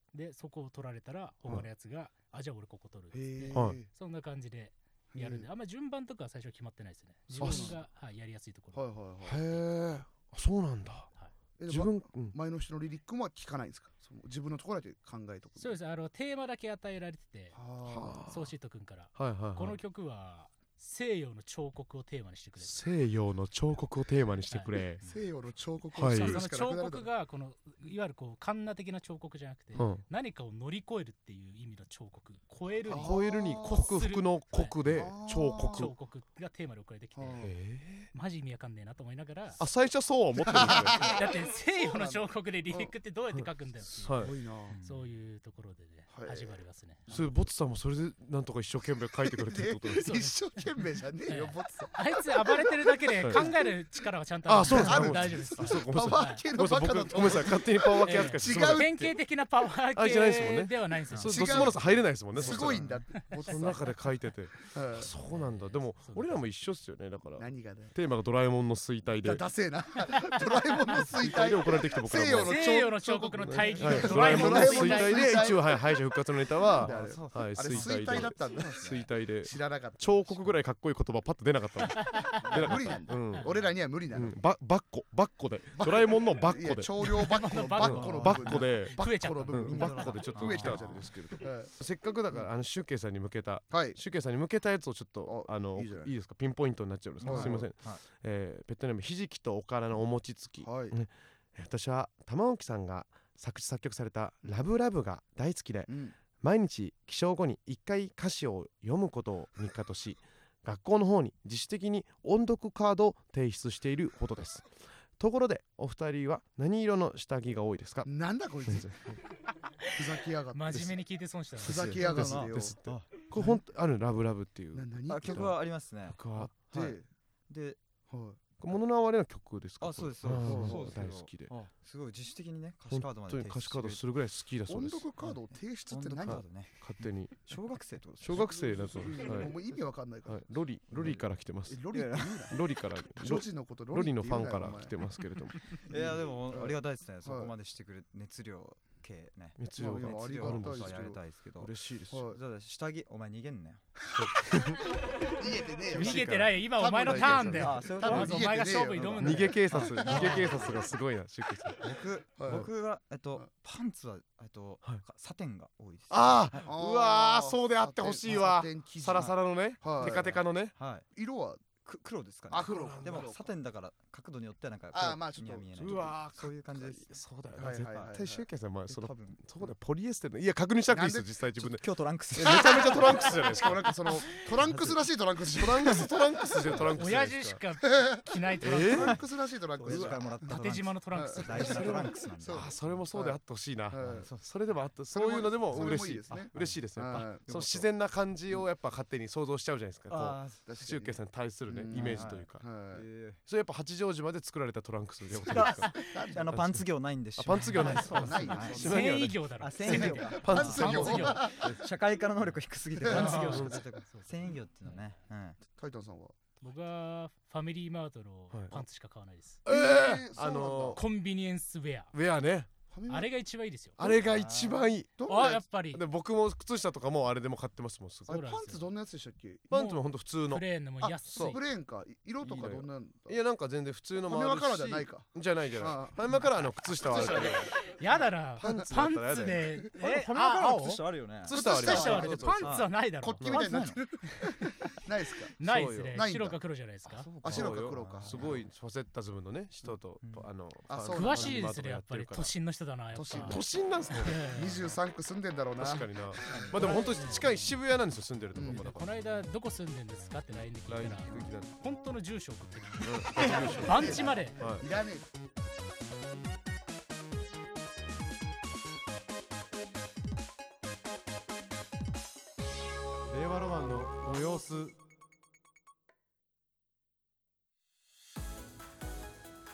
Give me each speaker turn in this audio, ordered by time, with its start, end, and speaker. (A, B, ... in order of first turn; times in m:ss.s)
0:00.1-0:08.8 A
0:03.1-0:03.9 B
0:03.5-0:03.8 C
0:05.1-0:05.5 B
0:07.3-0:07.8 B
0:07.4-0:07.8 C
0:08.7-0:09.4 B
0:09.2-0:11.1 C
0:11.6-0:15.8 B
0:11.7-0:12.3 C
0:15.6-0:17.6 A
0:17.5-0:18.2 B
0:17.9-0:18.5 C
0:18.2-0:22.8 A
0:19.1-0:19.8 C
0:22.6-0:25.0 C
0:24.5-0:25.2 A
0:25.0-0:27.0 B
0:26.0-0:26.4 C
0:26.0-0:39.6 A
0:29.7-0:30.0 C
0:32.8-0:33.9 B
0:32.9-0:35.9 C
0:34.8-0:35.9 B
0:37.1-0:37.5 B
0:37.4-0:38.1 C
0:39.6-0:41.1 C
0:40.4-0:42.9 B
0:40.5-0:47.2 A
0:44.0-0:44.3 C
0:44.1-0:44.8 B
0:44.7-0:45.0 D
0:46.1-0:47.3 B
0:47.1-0:50.1 C
0:49.2-0:53.8 B
0:50.0-0:56.4 A
0:54.5-0:59.1 C
0:54.6-0:58.9 B
0:58.0-1:01.8 A
0:59.9-1:09.4 C
1:01.2-1:03.9 B
1:02.4-1:03.1 D
1:04.7-1:05.1 B
1:05.1-1:06.7 A
1:07.4-1:07.9 B
1:09.2-1:15.9 B
1:11.1-1:12.6 C
1:12.3-1:15.5 A
1:13.4-1:26.9 C
1:16.7-1:19.1 D
1:16.7-1:20.5 B
1:21.9-1:22.8 A
1:22.4-1:24.4 B
1:25.7-1:31.7 B
1:27.0-1:30.8 A
1:27.8-1:58.1 C
1:27.8-1:28.5 D
1:29.7-1:31.1 D
1:33.7-1:34.0 B
1:35.2-1:36.1 B
1:37.2-1:38.0 D
1:37.2-1:37.6 B
1:40.6-1:40.9 B
1:45.9-1:46.2 B
1:58.0-1:59.2 B
1:58.7-1:59.2 C
1:59.9-2:01.0 B
2:00.5-2:02.0 A
2:01.6-2:02.8 B
2:01.6-2:07.0 C
2:01.8-2:03.1 D
2:03.3-2:03.6 B
2:04.7-2:05.5 B
2:05.1-2:06.2 D
2:06.7-2:07.1 B
2:07.5-2:07.8 D
2:08.1-2:08.4 B
2:08.6-2:11.6 C
2:09.8-2:14.0 D
2:10.4-2:11.7 B
2:12.9-2:15.0 C
2:14.7-2:16.4 B
2:15.2-2:19.8 D
2:16.2-2:17.6 C
2:18.2-2:19.6 C
2:18.3-2:20.4 B
2:20.2-2:21.8 C
2:20.9-2:21.2 D
2:21.6-2:22.6 B
2:21.9-2:22.5 D
2:22.5-2:25.7 C
2:23.1-2:24.9 B
2:25.8-2:34.0 D
2:25.9-2:27.5 B
2:29.6-2:32.2 C
2:29.8-2:31.2 B
2:32.1-2:32.4 B
2:34.1-2:34.8 C
2:35.4-2:40.7 B
2:35.9-2:37.7 C
2:35.9-2:40.6 A
2:37.6-2:40.9 D
2:39.2-2:41.8 C
2:41.8-2:46.7 D
2:41.9-2:42.7 B
2:46.1-2:50.7 C
2:46.6-2:50.4 B
2:50.0-2:51.0 D
2:51.1-2:51.6 B
2:51.8-2:58.2 D
2:52.5-2:53.5 B
2:52.6-2:53.3 C
2:54.9-2:56.1 B
2:55.8-3:04.3 C
2:57.6-2:58.4 B
2:58.8-2:59.4 D
3:00.9-3:01.3 B
3:01.6-3:03.8 D
3:03.6-3:06.9 B
3:04.6-3:05.1 D
3:05.5-3:07.6 C
3:07.0-3:09.2 A
3:08.0-3:14.3 B
3:08.6-3:09.2 C
3:09.8-3:13.0 D
3:09.8-3:10.2 C
3:10.4-3:11.9 A
3:11.6-3:22.6 C
3:14.0-3:14.8 D
3:15.1-3:17.4 B
3:15.7-3:17.9 D
3:20.1-3:20.7 D
3:20.6-3:23.0 B
3:21.9-3:23.4 D
3:23.4-3:25.9 C
3:25.3-3:35.6 D
3:25.7-3:26.3 A
3:26.0-3:26.5 B
3:26.5-3:31.7 C
3:27.7-3:31.5 A
3:27.7-3:29.1 B
3:29.8-3:31.7 B
3:32.9-3:33.8 B
3:33.0-3:35.0 A
3:33.2-3:33.8 C
3:35.8-3:36.3 B
3:36.6-3:39.6 A
3:38.5-3:38.8 C
3:39.6-3:41.0 C
3:39.6-3:41.0 B
3:41.0-3:42.1 A
3:42.1-3:42.7 C
3:42.9-3:43.3 B
3:43.1-3:44.0 A
3:44.0-3:45.3 C
3:44.0-3:44.8 D
3:45.2-3:45.6 B
3:45.2-3:46.0 A
3:45.9-3:48.4 C
3:48.3-3:49.7 B
3:48.3-3:48.8 A
3:49.7-3:50.6 C
3:49.7-3:51.6 A
3:51.0-3:53.4 B
3:51.3-3:51.6 C
3:52.4-3:57.8 C
3:54.2-3:56.4 B
3:57.0-3:57.7 B
3:57.8-4:03.4 A
3:58.6-3:59.7 C
4:00.0-4:01.5 D
4:01.4-4:02.7 C
4:01.5-4:05.5 B
4:02.6-4:02.9 D
4:03.4-4:03.7 C
4:03.4-4:04.0 D
4:05.6-4:07.3 A
4:05.6-4:06.2 C
4:06.1-4:06.6 B
4:07.1-4:08.7 D
4:07.4-4:08.6 B
4:07.4-4:12.5 C
4:10.2-4:10.5 D
4:10.9-4:11.6 B
4:11.1-4:13.6 A
4:13.1-4:13.7 B
4:13.4-4:14.4 C
4:14.1-4:14.8 A
4:14.4-4:17.0 B
4:15.8-4:19.2 C
4:16.5-4:17.7 D
4:16.8-4:17.4 A
4:18.5-4:18.8 B
4:18.7-4:24.6 A
4:20.9-4:21.7 C
4:23.0-4:24.8 C
4:23.6-4:24.3 D
4:23.8-4:25.2 B
4:33.3-4:34.9 C